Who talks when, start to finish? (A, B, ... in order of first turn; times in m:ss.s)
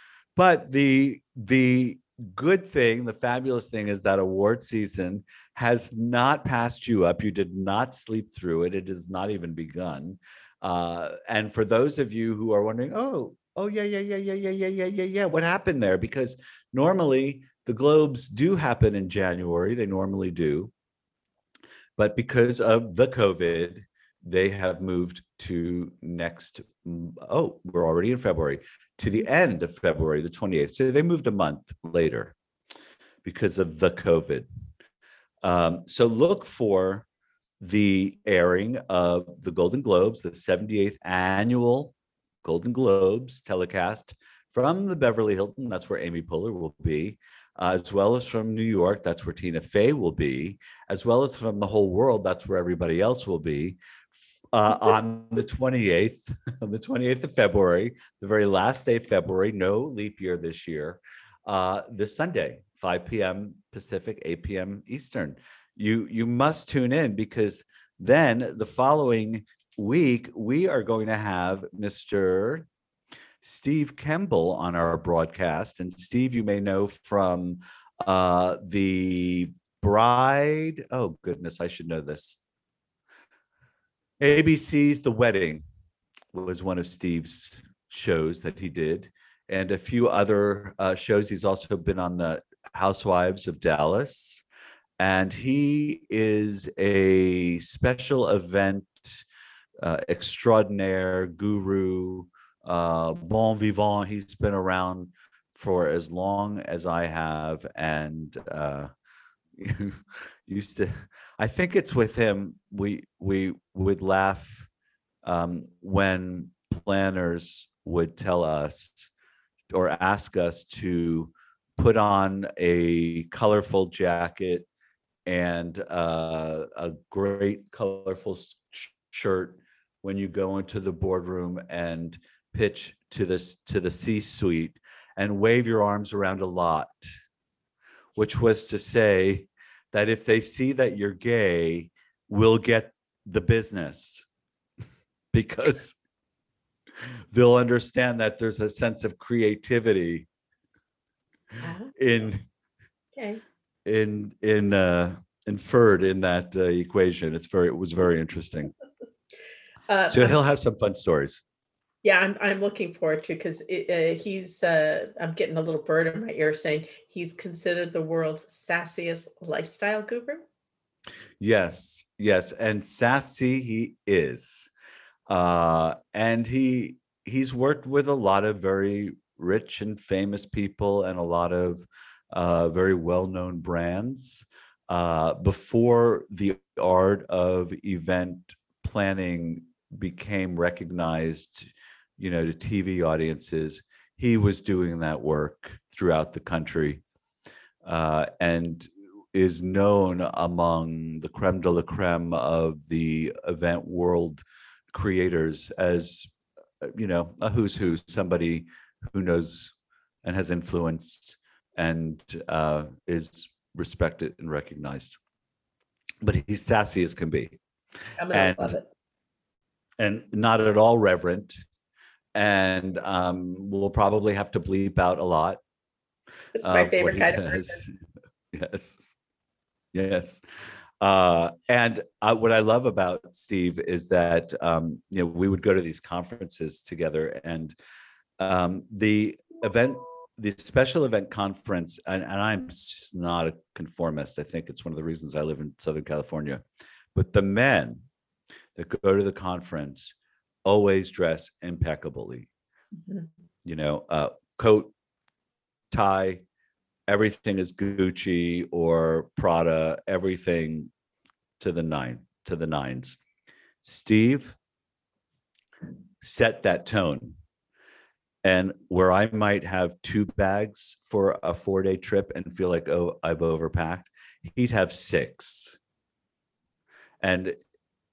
0:00.4-0:20.7 A
0:22.0-0:32.4 A
0:33.2-0:34.5 A
0:35.4-0:37.1 A
0:37.6-0:53.8 A
0:54.5-1:12.7 A
1:13.4-1:22.4 A
1:24.2-1:25.6 A
1:26.3-1:34.4 A
1:35.0-1:39.2 A
1:39.8-1:48.9 A
1:49.6-1:54.7 A
1:55.2-1:59.1 A
1:59.7-2:04.7 A
2:05.3-2:17.1 A
2:18.2-2:24.3 A
2:25.3-2:26.0 A
2:27.3-2:30.3 A
2:31.6-2:31.9 B
2:32.0-2:32.4 A
2:33.2-2:33.4 B
2:33.8-2:38.7 A
2:39.9-2:40.4 B
2:40.1-2:41.4 A
2:42.0-2:50.4 B
2:51.4-2:54.7 A
2:55.3-3:17.0 A
3:17.8-3:35.2 A
3:36.2-3:37.6 A
3:38.2-3:38.9 B
3:38.3-3:38.8 A
3:40.0-3:41.6 A
3:42.4-3:45.6 A
3:46.6-3:47.8 B
3:46.6-3:47.9 A
3:48.5-3:49.1 A
3:49.9-3:50.4 A
3:51.0-3:57.8 A
3:58.4-4:06.6 A
4:07.2-4:08.0 A
4:08.8-4:12.5 A
4:13.6-4:14.9 A
4:15.9-4:16.4 A
4:17.1-4:20.9 A
4:21.6-4:23.2 A
4:23.8-4:24.6 A
4:26.2-4:27.4 A
4:28.4-4:35.8 A
4:37.2-4:37.6 A